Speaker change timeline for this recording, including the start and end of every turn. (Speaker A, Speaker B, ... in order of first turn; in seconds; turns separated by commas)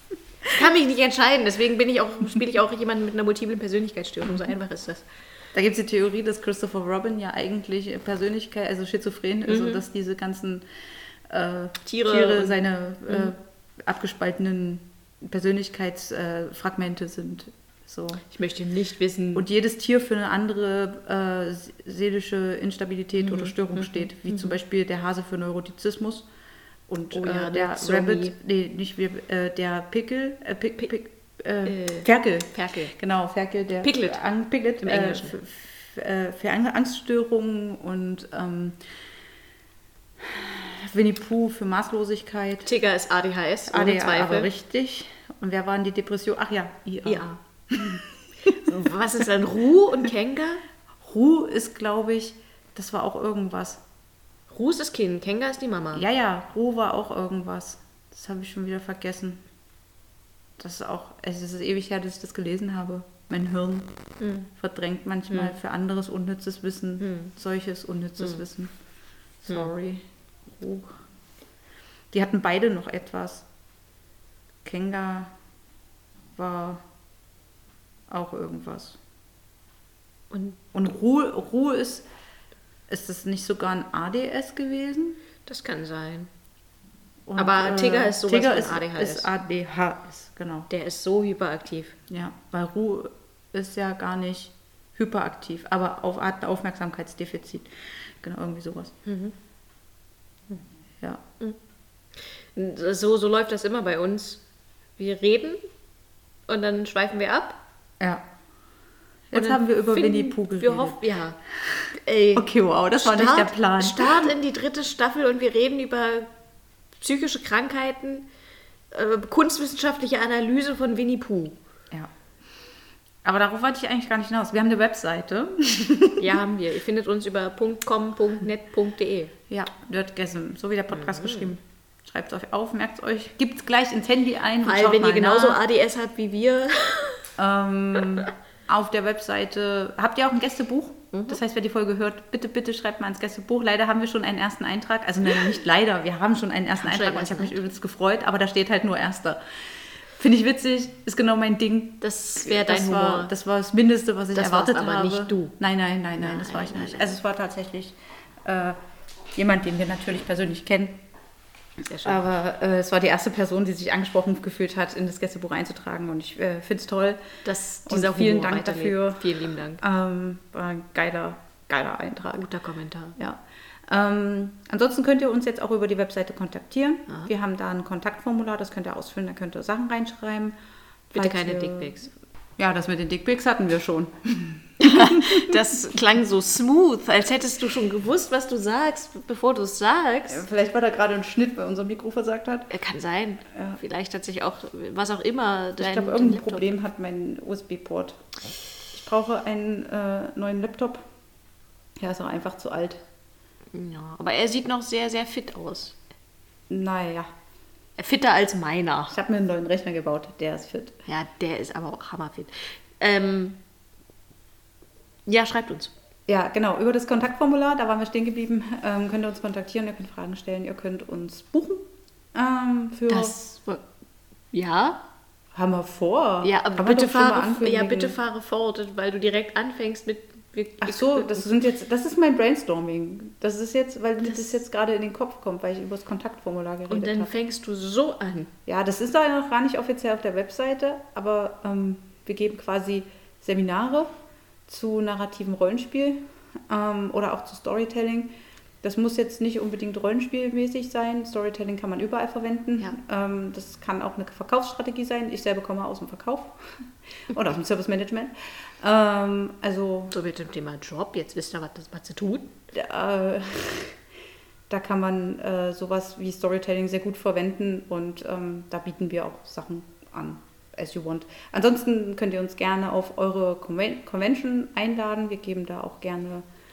Speaker A: 0.5-5.0, Speaker B: 5.5-10.6, Speaker A: 9.5-9.8, Speaker B: 11.3-18.2, Speaker A: 11.8-13.3, Speaker A: 18.3-19.4, Speaker B: 19.3-26.3, Speaker A: 23.2-24.5, Speaker B: 26.9-38.8, Speaker A: 27.1-28.3, Speaker A: 31.6-32.9, Speaker A: 33.8-34.2, Speaker A: 34.8-35.3, Speaker B: 40.2-42.7, Speaker A: 42.6-44.5, Speaker B: 43.7-48.1, Speaker A: 47.0-47.4, Speaker A: 48.5-50.6, Speaker B: 51.0-53.8, Speaker A: 54.5-56.0, Speaker B: 55.9-59.4, Speaker B: 60.6-63.9, Speaker A: 64.2-64.5, Speaker B: 64.5-68.7, Speaker A: 65.3-65.5, Speaker A: 67.0-67.3, Speaker B: 69.4-71.0, Speaker B: 72.1-73.5, Speaker B: 74.6-75.3, Speaker B: 76.3-76.8, Speaker B: 78.1-79.0, Speaker A: 80.3-80.6, Speaker B: 80.7-82.0, Speaker B: 82.9-85.2, Speaker A: 85.5-86.3, Speaker B: 87.3-90.7, Speaker A: 87.3-89.3, Speaker A: 90.7-92.0, Speaker B: 92.1-97.7, Speaker B: 98.2-98.9, Speaker A: 99.0-99.3, Speaker A: 102.4-104.4, Speaker A: 105.0-105.6, Speaker A: 106.5-107.6, Speaker B: 108.0-108.2, Speaker B: 109.3-111.0, Speaker A: 109.3-111.4, Speaker B: 111.7-114.3, Speaker A: 111.9-116.3, Speaker A: 117.0-118.2, Speaker A: 118.9-121.5, Speaker B: 123.2-126.4, Speaker A: 126.2-129.3, Speaker B: 129.5-135.6, Speaker A: 130.9-131.5, Speaker A: 134.6-137.2, Speaker B: 137.4-149.4, Speaker A: 141.1-141.4, Speaker A: 146.8-147.6, Speaker B: 150.1-158.8, Speaker A: 152.0-153.3, Speaker A: 154.3-155.5, Speaker A: 156.2-157.2, Speaker B: 159.3-161.0, Speaker A: 161.8-162.2, Speaker B: 162.0-167.2, Speaker A: 167.4-169.8, Speaker B: 167.8-172.4, Speaker A: 172.3-173.2, Speaker B: 173.2-180.6, Speaker B: 181.1-181.9, Speaker A: 181.1-182.1, Speaker B: 182.6-185.6, Speaker A: 184.8-190.4, Speaker B: 190.3-192.7, Speaker A: 192.7-196.7, Speaker B: 195.8-198.2, Speaker B: 198.9-201.1, Speaker B: 202.0-203.0, Speaker A: 203.7-205.9, Speaker B: 206.7-207.3, Speaker A: 208.0-209.2, Speaker B: 209.1-210.9, Speaker A: 211.1-213.6, Speaker A: 215.3-215.9, Speaker B: 216.3-223.3, Speaker A: 223.1-223.8, Speaker A: 224.5-225.0, Speaker B: 225.5-228.2, Speaker A: 226.4-231.4, Speaker B: 230.8-237.3, Speaker A: 234.2-234.5, Speaker A: 236.9-238.5, Speaker B: 238.7-244.1, Speaker B: 244.7-260.1, Speaker A: 260.1-262.5, Speaker B: 262.7-264.0, Speaker B: 264.7-276.4